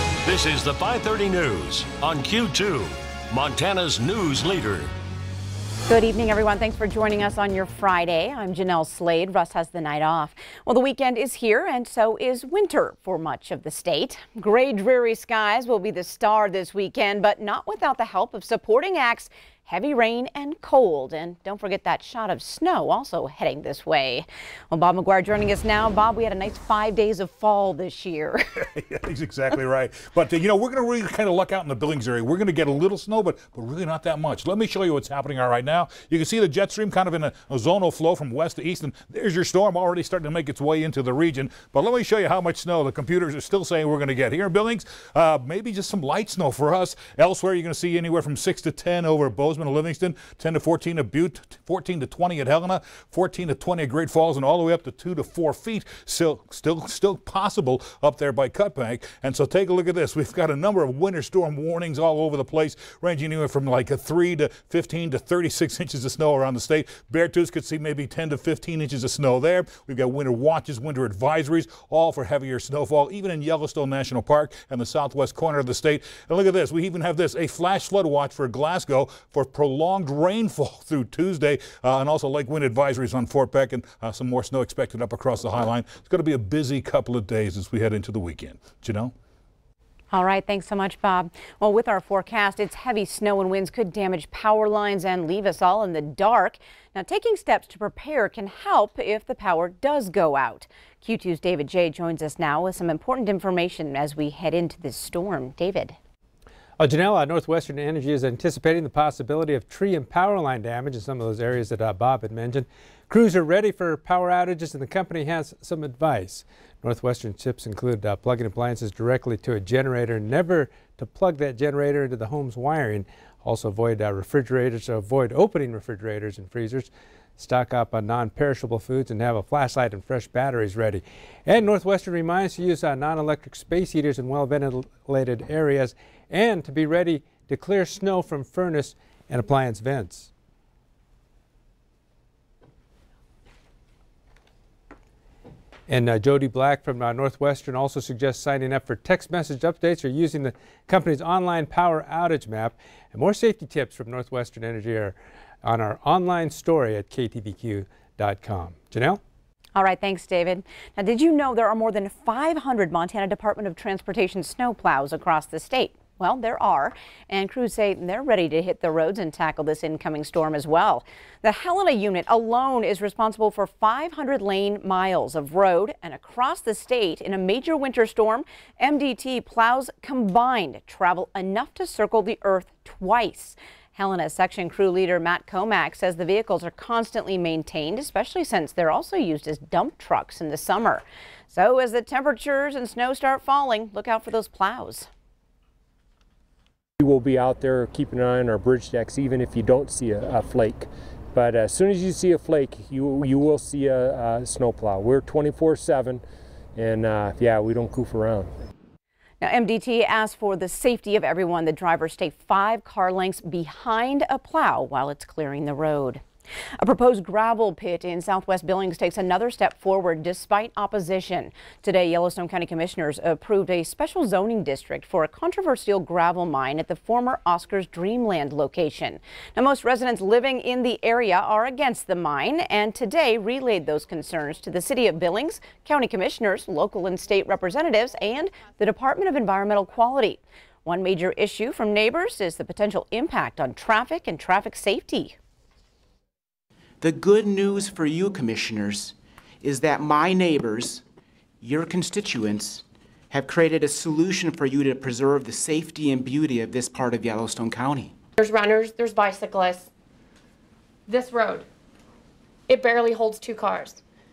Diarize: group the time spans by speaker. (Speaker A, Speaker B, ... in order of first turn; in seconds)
Speaker A: 0.2-4.9
Speaker B: 5.9-28.4, 90.1-106.0, 159.8-195.1, 209.4-216.2, 216.8-245.3
Speaker C: 28.8-89.1
Speaker D: 106.8-140.3, 145.9-159.2
Speaker E: 197.0-206.2, 206.8-208.5
Speaker F: 247.0-251.0, 251.6-258.1
Speaker G: 258.4-259.9, 261.1-261.7, 262.7-264.0